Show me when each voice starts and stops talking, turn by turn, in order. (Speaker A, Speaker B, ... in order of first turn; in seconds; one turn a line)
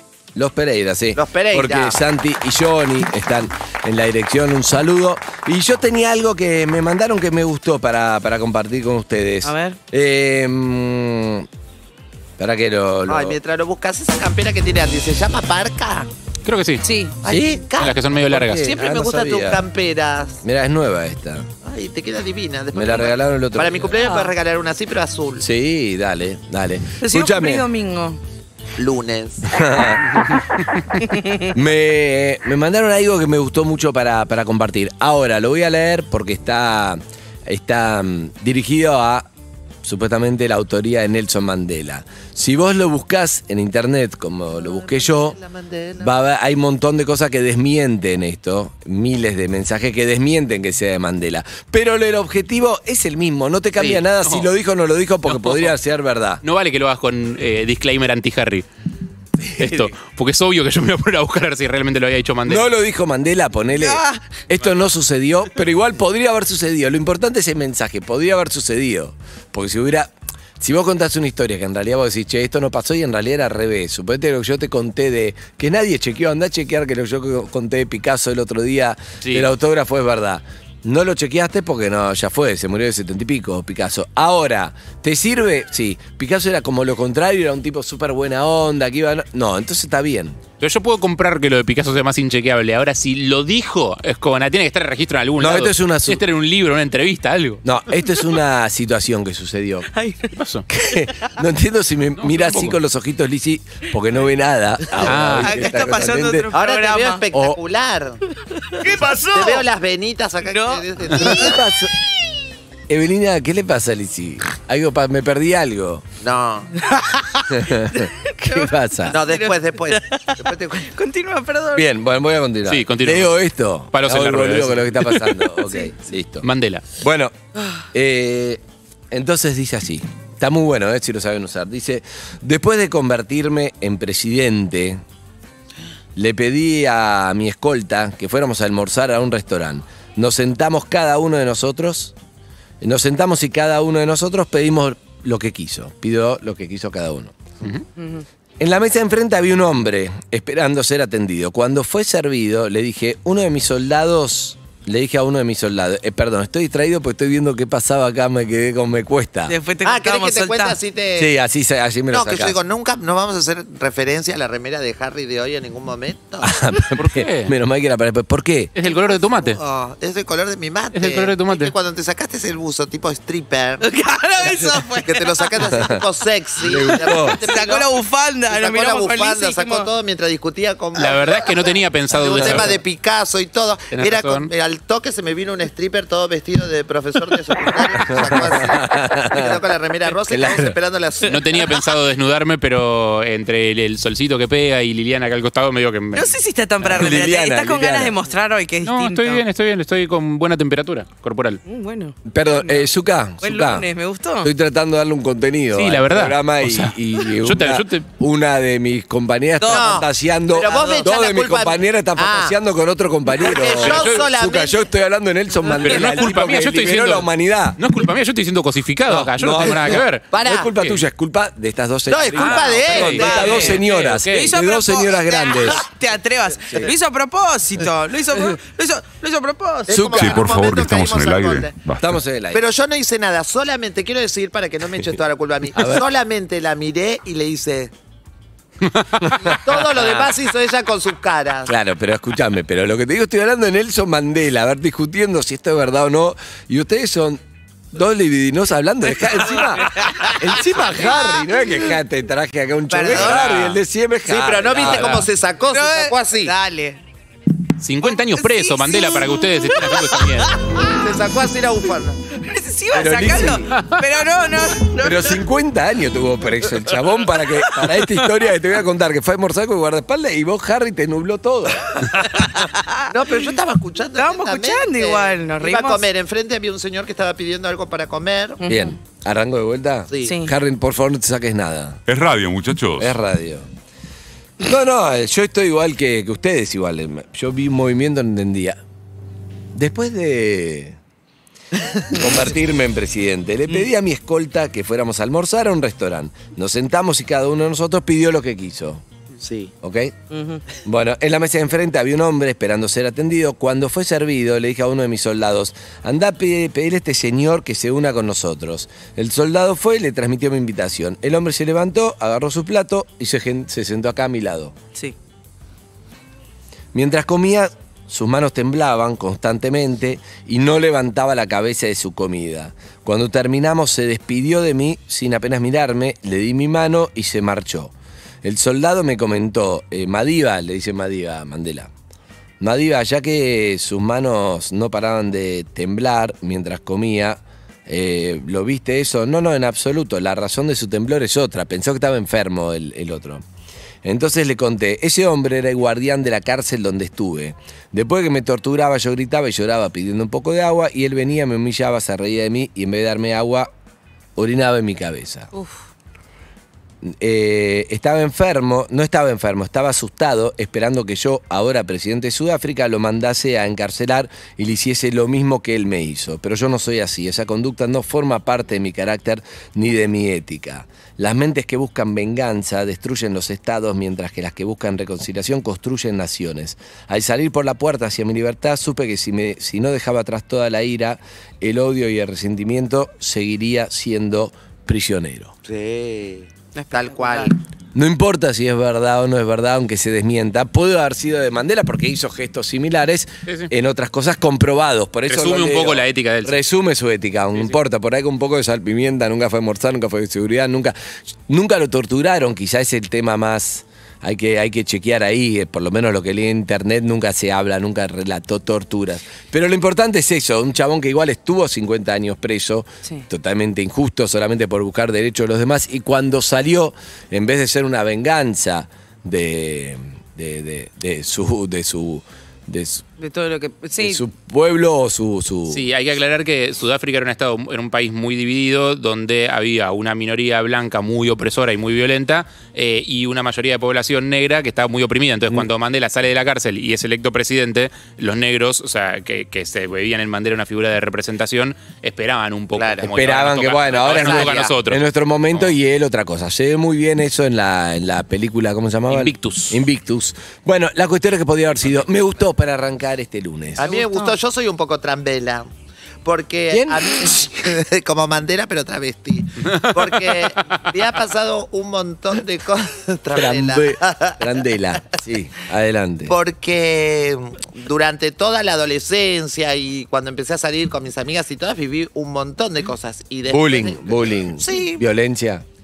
Speaker A: 0.3-11.5
Speaker B: 1.1-2.0
Speaker C: 9.4-9.8
Speaker A: 12.4-13.4
Speaker B: 13.1-16.1
Speaker D: 16.4-16.8
Speaker C: 16.8-17.2
Speaker B: 17.2-18.0
Speaker A: 17.3-17.6
Speaker D: 17.8-18.7
Speaker A: 18.3-19.6
Speaker B: 18.5-20.4
Speaker A: 20.4-21.5
Speaker B: 21.6-25.4
Speaker A: 22.7-24.0
Speaker C: 24.0-24.3
Speaker A: 25.4-27.6
Speaker C: 27.0-28.2
Speaker B: 28.8-29.5
Speaker A: 29.5-30.4
Speaker C: 31.0-31.5
Speaker A: 31.5-39.3
Speaker A: 39.8-45.4
Speaker B: 44.6-46.1
Speaker A: 46.0-56.4
Speaker D: 54.0-54.5
Speaker D: 55.3-55.8
Speaker D: 56.4-58.7
Speaker A: 59.4-59.9
Speaker D: 59.6-62.7
Speaker A: 62.5-90.4
Speaker C: 63.8-64.2
Speaker D: 79.2-79.5
Speaker D: 90.6-97.6
Speaker A: 95.4-96.2
Speaker A: 97.6-99.9
Speaker C: 99.9-100.3
Speaker D: 100.3-100.7
Speaker A: 100.7-106.5
Speaker D: 102.2-102.8
Speaker D: 105.0-105.6
Speaker C: 105.2-107.2
Speaker B: 106.5-108.2
Speaker A: 107.3-107.6
Speaker C: 108.5-109.7
Speaker B: 109.3-111.6
Speaker C: 110.5-111.6
Speaker A: 111.1-111.9
Speaker A: 112.9-116.0
Speaker B: 116.2-116.9
Speaker C: 116.9-121.8
Speaker A: 117.5-119.2
Speaker B: 119.1-120.9
Speaker A: 121.8-126.5
Speaker D: 122.7-123.4
Speaker D: 123.9-125.4
Speaker D: 126.4-126.8
Speaker A: 127.0-127.3
Speaker A: 127.9-128.6
Speaker A: 129.1-135.0
Speaker A: 136.2-142.1
Speaker A: 142.8-147.4
Speaker C: 148.0-148.2
Speaker A: 148.6-159.6
Speaker C: 159.5-160.8
Speaker B: 159.8-161.3
Speaker A: 161.2-162.6
Speaker B: 162.1-166.6
Speaker A: 166.4-168.7
Speaker D: 167.0-167.5
Speaker D: 168.8-169.6
Speaker B: 168.8-173.9
Speaker D: 170.9-171.7
Speaker C: 173.8-175.8
Speaker B: 174.4-177.9
Speaker A: 176.6-177.4
Speaker C: 177.1-179.9
Speaker B: 178.5-191.7
Speaker D: 181.0-182.8
Speaker A: 182.2-182.8
Speaker D: 183.9-184.5
Speaker A: 188.1-189.6
Speaker A: 190.2-190.8
Speaker D: 191.3-196.4
Speaker C: 196.1-199.4
Speaker A: 196.8-198.2
Speaker D: 198.8-201.6
Speaker C: 201.7-202.8
Speaker A: 202.3-203.9
Speaker C: 203.4-204.5
Speaker A: 204.4-217.8
Speaker D: 205.7-208.1
Speaker C: 209.6-211.1
Speaker B: 209.7-212.6
Speaker B: 213.4-214.8
Speaker D: 213.8-214.2
Speaker D: 215.8-221.0
Speaker A: 219.1-225.8
Speaker B: 220.3-220.7
Speaker B: 222.1-223.8
Speaker D: 222.4-224.5
Speaker C: 223.0-230.0
Speaker B: 229.9-231.8
Speaker A: 229.9-230.4
Speaker E: 230.1-232.1
Speaker A: 232.0-232.6
Speaker B: 232.5-237.9
Speaker A: 235.7-236.1
Speaker A: 239.2-240.3
Speaker B: 239.4-241.7
Speaker A: 241.7-247.4
Speaker A: 247.9-255.2
Speaker C: 249.6-250.3
Speaker B: 251.1-251.4
Speaker B: 252.9-253.5
Speaker D: 253.1-253.8
Speaker B: 254.3-256.6
Speaker D: 254.7-255.3
Speaker C: 255.7-257.0
Speaker D: 257.8-260.5
Speaker C: 258.3-260.9
Speaker B: 260.8-262.2
Speaker C: 262.3-265.4
Speaker A: 262.9-263.8
Speaker A: 265.0-272.0
Speaker C: 272.4-273.1
Speaker B: 273.1-278.6
Speaker C: 274.2-276.1
Speaker C: 278.6-278.9
Speaker A: 278.7-282.0
Speaker B: 280.1-280.4
Speaker C: 280.2-280.5
Speaker E: 282.1-283.1
Speaker A: 283.0-283.7
Speaker A: 284.6-288.8
Speaker A: 289.7-291.0
Speaker A: 292.1-299.0
Speaker B: 299.4-299.7
Speaker A: 299.8-300.1
Speaker C: 300.3-300.6
Speaker A: 300.8-314.7
Speaker A: 316.9-331.9
Speaker A: 332.6-343.4
Speaker A: 344.0-353.7
Speaker A: 354.4-355.5
Speaker C: 355.5-355.8
Speaker A: 357.0-385.5
Speaker B: 385.6-387.6
Speaker C: 386.8-387.5
Speaker A: 387.9-400.9
Speaker D: 393.5-393.7
Speaker D: 395.3-396.6
Speaker A: 401.5-423.0
Speaker C: 423.2-424.2
Speaker A: 424.0-425.9
Speaker D: 425.7-445.7
Speaker B: 442.8-443.1
Speaker A: 443.1-454.0
Speaker B: 444.0-444.8
Speaker D: 449.1-449.8
Speaker B: 453.8-455.7
Speaker C: 453.8-454.3
Speaker B: 456.2-464.5
Speaker A: 456.7-457.2
Speaker D: 459.7-460.9
Speaker A: 463.3-466.4
Speaker B: 466.3-475.1
Speaker A: 473.5-475.6